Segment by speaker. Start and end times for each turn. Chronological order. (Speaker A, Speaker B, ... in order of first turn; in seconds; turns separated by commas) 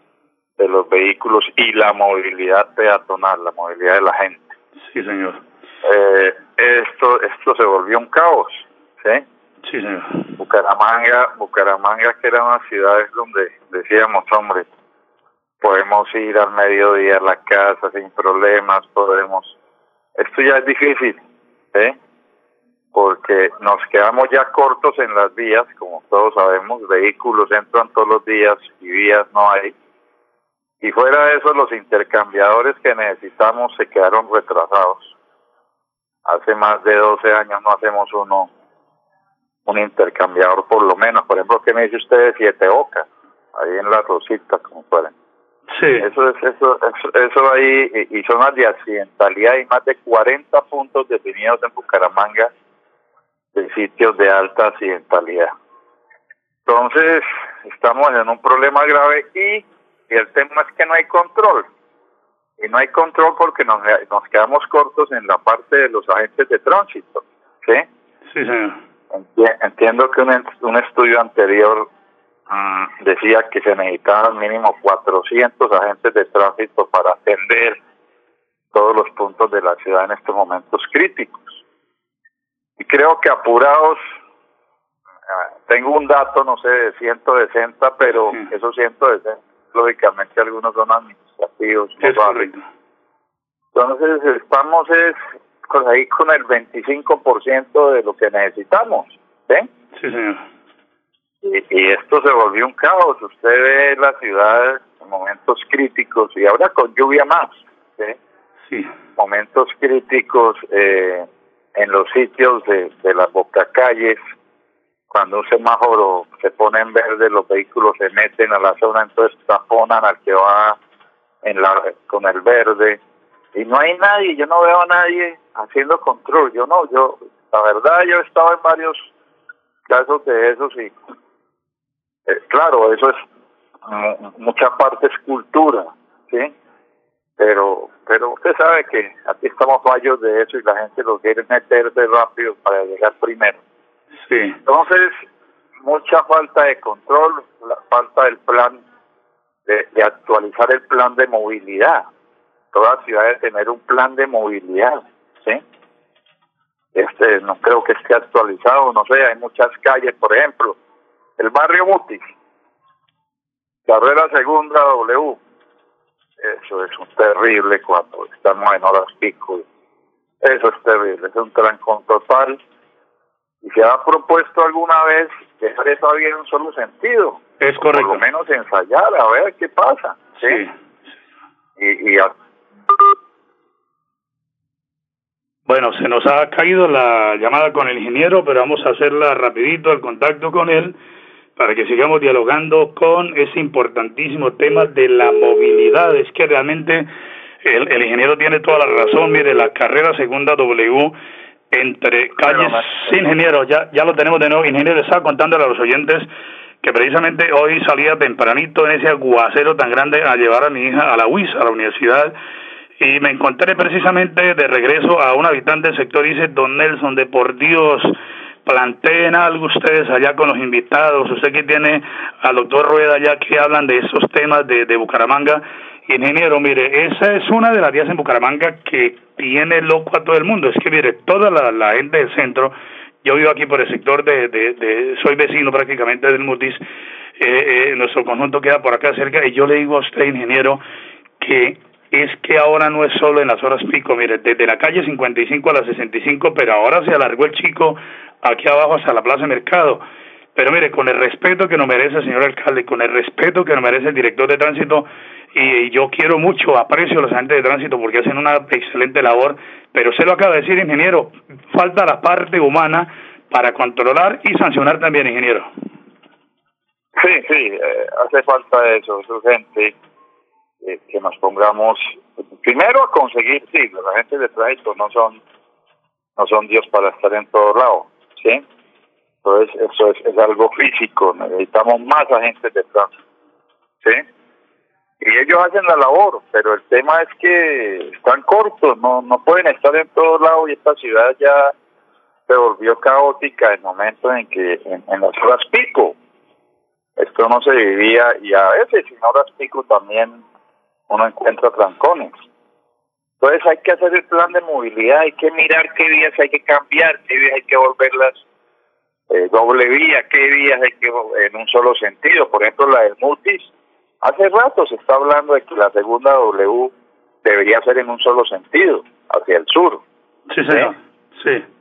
Speaker A: 0.6-4.5, Speaker B: 4.9-5.4, Speaker A: 5.8-9.2, Speaker B: 9.6-10.3, Speaker A: 10.4-14.7, Speaker A: 15.6-19.6, Speaker A: 20.2-21.2, Speaker A: 22.9-29.8, Speaker A: 30.8-35.1, Speaker A: 36.2-38.5, Speaker A: 39.7-45.1, Speaker B: 45.7-46.1, Speaker A: 46.0-52.5, Speaker A: 53.5-55.5, Speaker A: 56.7-61.7, Speaker A: 62.6-67.9, Speaker B: 68.3-68.8, Speaker A: 69.1-71.9, Speaker A: 72.5-77.8, Speaker A: 78.7-81.6, Speaker A: 82.8-84.0, Speaker A: 85.3-92.5, Speaker B: 92.0-92.6, Speaker A: 93.7-99.7, Speaker B: 100.0-100.4, Speaker A: 101.4-108.2, Speaker A: 109.2-114.2, Speaker A: 115.1-120.8, Speaker A: 121.4-123.0, Speaker A: 123.5-129.1, Speaker A: 129.9-130.9, Speaker A: 132.3-133.2, Speaker A: 133.9-136.5, Speaker A: 137.4-143.6, Speaker B: 144.3-144.6, Speaker A: 144.7-145.2, Speaker A: 145.8-148.8, Speaker A: 149.7-152.1, Speaker A: 152.7-155.6, Speaker A: 156.9-160.8, Speaker A: 161.4-162.3, Speaker A: 163.9-165.4, Speaker A: 166.4-169.7, Speaker A: 170.4-172.6, Speaker A: 173.6-180.6, Speaker B: 177.6-178.2, Speaker B: 180.4-180.7, Speaker A: 181.8-182.3, Speaker B: 185.7-190.9, Speaker B: 191.6-197.1, Speaker B: 197.6-201.1, Speaker B: 201.7-206.3, Speaker A: 202.4-203.2, Speaker B: 206.8-212.3, Speaker B: 213.0-236.8, Speaker B: 237.4-240.8, Speaker B: 241.4-250.0, Speaker B: 250.6-265.7, Speaker A: 267.2-269.9, Speaker A: 270.8-275.4, Speaker A: 276.4-278.6, Speaker A: 279.4-283.1, Speaker A: 285.2-291.7, Speaker A: 292.5-296.2, Speaker A: 297.2-300.4, Speaker A: 301.1-302.3, Speaker A: 303.4-308.4, Speaker A: 309.3-313.7, Speaker A: 314.2-316.9, Speaker A: 317.4-320.0, Speaker B: 320.5-321.6